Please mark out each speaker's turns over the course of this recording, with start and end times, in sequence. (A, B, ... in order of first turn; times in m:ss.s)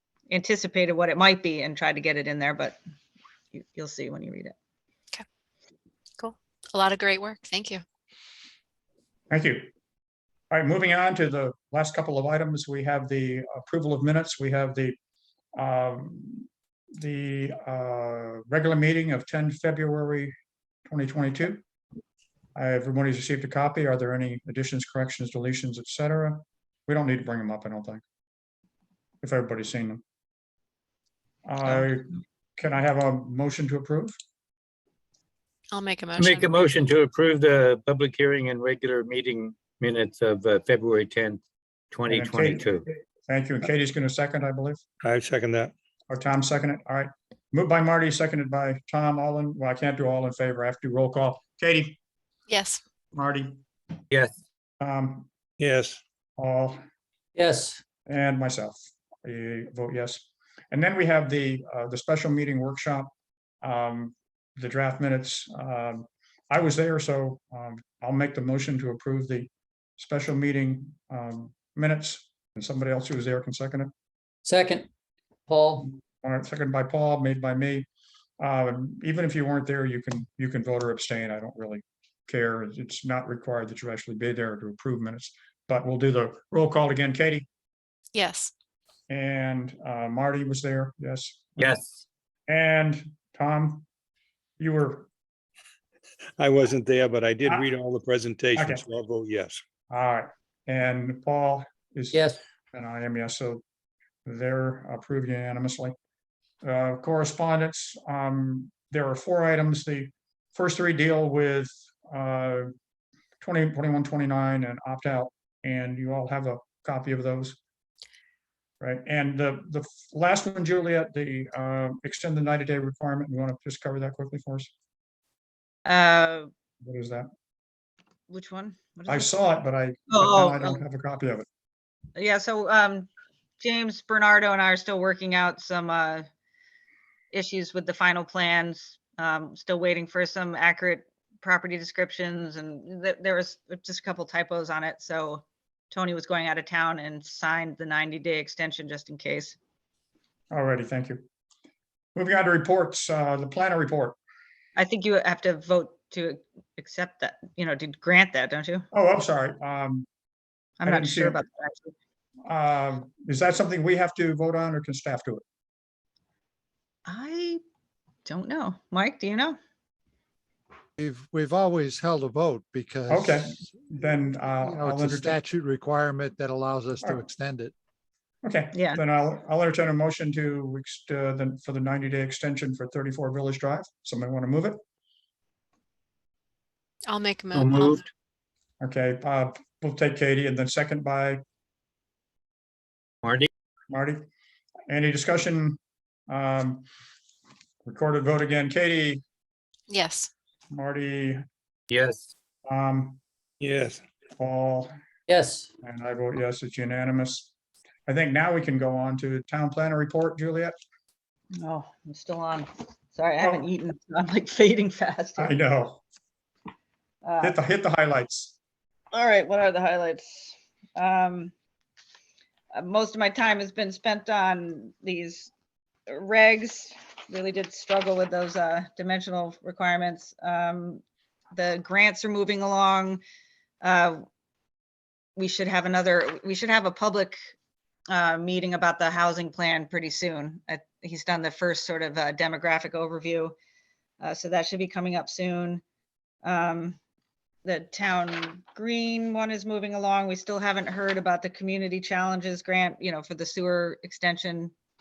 0:00.3-0:02.8 A
0:03.5-0:04.5 A
0:06.2-0:07.8 B
0:09.3-0:09.7 C
0:10.5-0:15.0 C
0:15.6-0:20.3 C
0:20.9-0:21.6 C
0:22.6-0:28.0 C
0:29.2-0:30.0 C
0:31.5-0:34.2 C
0:35.7-0:36.5 B
0:36.2-0:41.4 D
0:41.9-0:42.9 D
0:42.1-0:44.8 C
0:45.0-0:45.7 E
0:46.1-0:52.0 C
0:52.5-0:52.8 B
0:53.1-0:53.6 C
0:54.8-0:55.3 C
0:55.6-0:56.0 E
0:56.4-0:56.8 C
0:57.4-0:57.8 F
0:58.1-1:03.1 C
1:03.6-1:13.9 C
1:14.4-1:14.9 F
1:15.5-1:15.9 F
1:16.0-1:17.9 C
1:18.4-1:27.5 C
1:28.1-1:28.5 B
1:29.1-1:31.8 C
1:31.6-1:32.0 D
1:32.5-1:33.9 C
1:34.6-1:35.1 C
1:36.4-1:39.6 E
1:38.6-1:38.8 C
1:39.9-1:42.2 C
1:42.1-1:42.4 F
1:42.7-1:43.6 C
1:44.3-1:45.9 C
1:46.6-1:52.7 C
1:53.4-1:57.6 C
1:58.8-2:04.7 C
2:05.9-2:06.5 A
2:06.8-2:07.3 C
2:08.3-2:09.3 A
2:09.1-2:11.5 C
2:10.1-2:10.8 A
2:12.2-2:16.3 A
2:17.3-2:29.6 A
2:30.5-2:31.2 C
2:32.2-2:34.2 C
2:34.8-2:38.8 A
2:38.9-2:40.1 C
2:40.8-2:41.9 A
2:40.8-2:41.4 C
2:42.5-2:45.4 C
2:47.1-2:47.6 A
2:48.3-2:49.6 A
2:51.0-2:53.7 G
2:53.1-2:55.4 C
2:54.6-2:57.7 G
2:58.4-3:04.8 C
2:58.7-2:59.0 A
3:07.1-3:08.0 B
3:07.6-3:08.1 D
3:08.8-3:11.4 C
3:13.2-3:13.5 D
3:13.9-3:14.3 C
3:14.9-3:15.8 C
3:16.3-3:16.9 C
3:17.8-3:19.2 C
3:19.9-3:20.3 B
3:20.7-3:21.4 C
3:21.9-3:22.3 D
3:22.7-3:23.2 C
3:23.6-3:24.0 E
3:24.4-3:24.9 C
3:25.3-3:25.7 F
3:25.8-3:27.5 C
3:28.1-3:30.8 C
3:31.6-3:35.5 A
3:33.4-3:33.6 C
3:35.4-3:36.0 C
3:37.2-3:37.6 A
3:37.4-3:38.6 C
3:39.1-3:41.5 A
3:42.7-3:45.5 A
3:46.1-3:53.2 A
3:53.8-3:54.2 A
3:55.4-3:57.4 A
3:58.1-4:03.6 A
4:04.2-4:05.8 A
4:06.4-4:07.0 A
4:07.6-4:14.7 A